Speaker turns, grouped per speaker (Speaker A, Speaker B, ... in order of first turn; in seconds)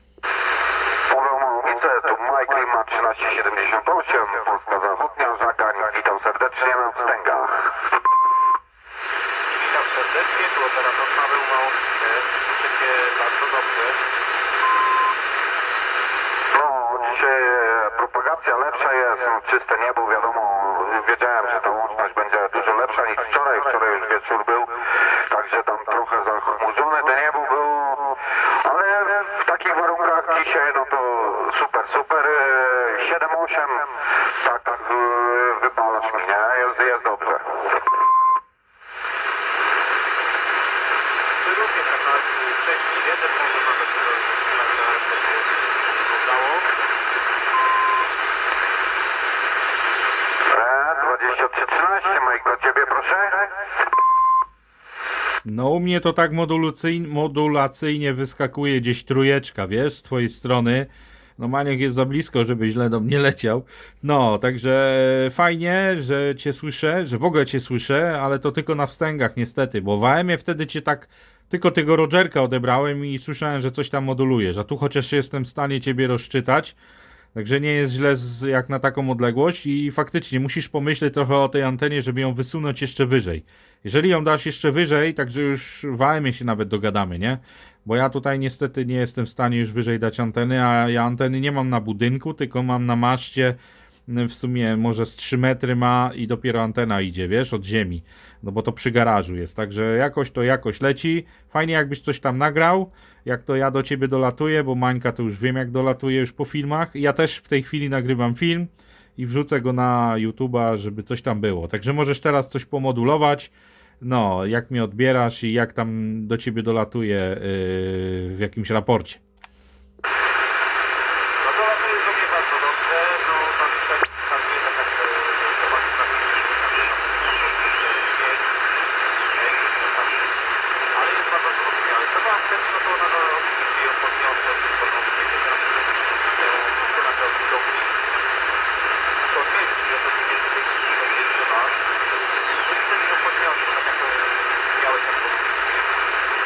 Speaker A: 1.1-7.7, 16.5-37.7, 50.5-53.5
Speaker B: 9.5-14.1, 41.4-46.7, 121.4-128.5, 129.2-130.3, 130.9-138.0, 139.3-141.8, 142.5-146.1
Speaker C: 55.4-76.8, 77.3-119.2